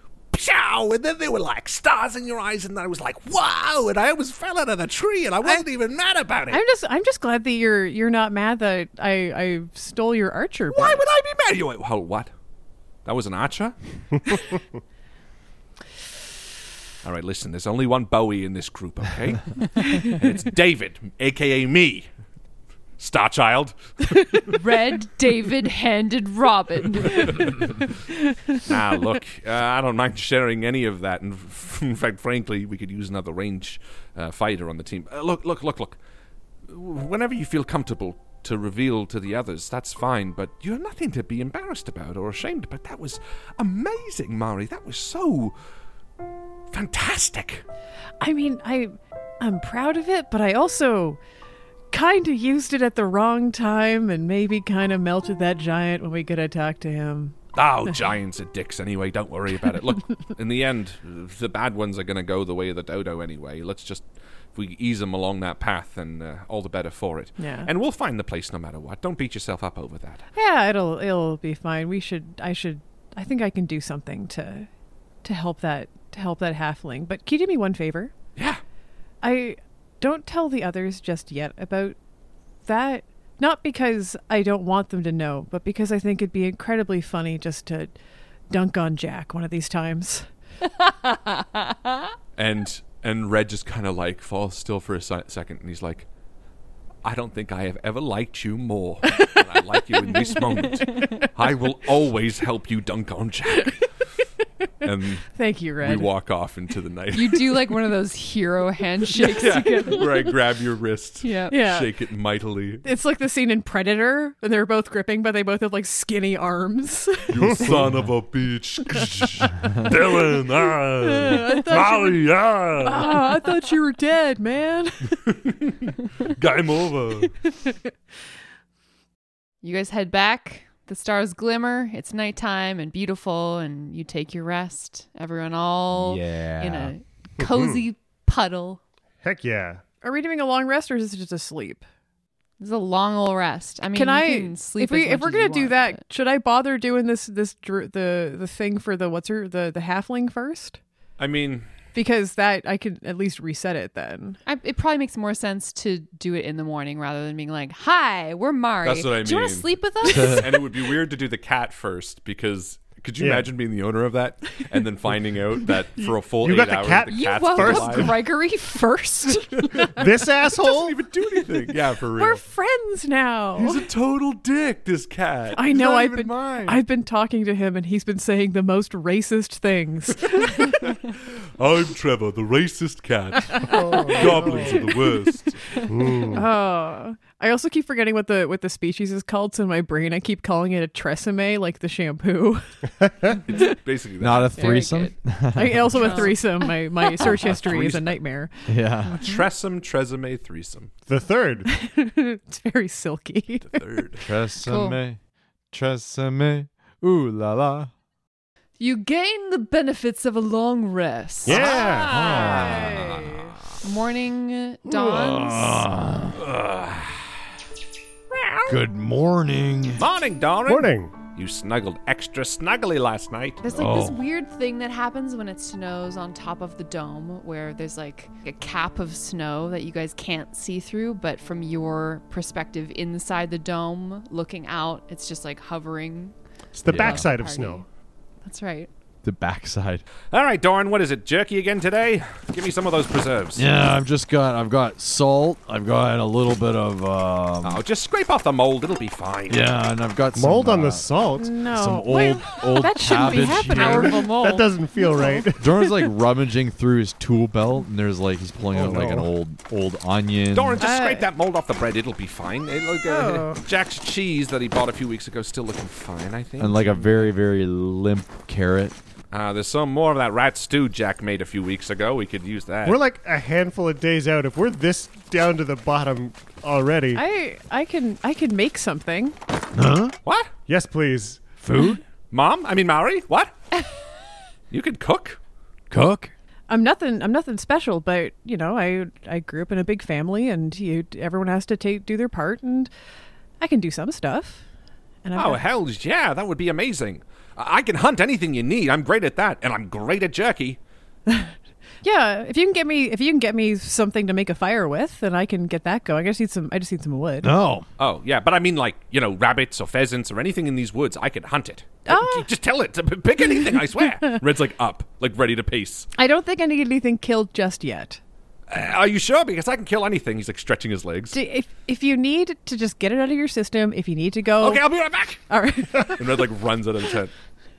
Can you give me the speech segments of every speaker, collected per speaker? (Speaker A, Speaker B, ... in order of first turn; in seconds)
Speaker A: 0.3-6.6, 10.7-12.3, 13.0-14.4, 17.0-22.1, 23.0-23.7, 28.6-36.0, 36.7-45.5, 46.7-47.6, 57.5-70.2, 78.3-78.6, 92.3-96.1, 97.0-103.8, 104.8-107.9, 109.2-112.8, 117.3-123.4, 125.3-127.3, 135.9-136.9, 151.2-151.7, 158.8-168.1, 170.6-172.4, 173.6-176.8, 181.6-185.6, 193.5-194.7, 197.2-198.1, 199.1-200.9, 203.7-204.2, 211.4-213.5, 216.3-217.2, 218.3-218.8, 220.0-223.6, 240.3-243.7, 247.6-249.7, 260.5-267.3, 269.3-273.0, 280.2-280.5, 282.3-283.5, 284.7-285.4, 295.3-300.8, 308.0-316.1, 318.7-321.4, 324.6-327.3
Speaker B: 6.5-11.0, 48.2-51.2, 51.9-57.3, 67.4-67.7, 70.3-74.7, 75.2-78.1, 79.2-82.0, 82.7-87.9, 88.5-90.2, 105.3-106.1, 109.1-110.2, 111.5-111.9, 112.8-117.5, 121.0-122.2, 122.8-125.2, 127.4-127.8, 140.0-141.8, 143.9-150.8, 151.9-154.4, 172.2-173.8, 175.5-180.7, 186.3-192.7, 194.6-198.5, 201.7-203.8, 212.3-213.5, 251.4-255.4, 260.8-261.2, 263.1-263.6, 277.1-279.4, 286.7-292.9, 293.6-294.6, 295.2-295.6, 301.3-307.5, 312.1-312.5, 316.1-318.2, 321.3-324.9, 325.5-326.2
Speaker C: 24.5-27.6, 107.1-110.3, 111.2-111.6, 129.6-138.8, 142.6-146.0, 154.4-160.6, 167.1-169.4, 194.6-195.1, 196.0-196.7, 204.6-205.0, 208.8-211.7, 213.8-215.9, 223.6-236.3, 236.9-237.8, 238.4-238.9, 253.2-254.7
Speaker D: 117.4-117.9, 137.4-137.8, 139.2-139.8, 163.2-163.5, 166.0-168.1, 169.8-171.0, 183.6-184.9, 185.8-186.4, 193.0-193.4, 201.1-201.7, 211.4-212.3, 220.7-221.1, 236.8-237.8, 250.3-251.5, 253.8-255.7, 258.7-259.3, 272.8-277.2, 280.7-281.4
Speaker E: 160.1-160.4, 194.2-196.1, 198.7-199.2, 204.2-205.2, 205.7-207.9, 212.0-213.1, 214.8-216.4, 218.7-220.0, 223.7-224.2, 236.9-237.3, 239.2-240.0, 243.5-247.8, 249.5-251.1, 251.7-254.2, 255.6-260.8, 266.6-268.9, 279.7-280.1, 281.6-282.0, 285.9-286.3, 307.4-307.9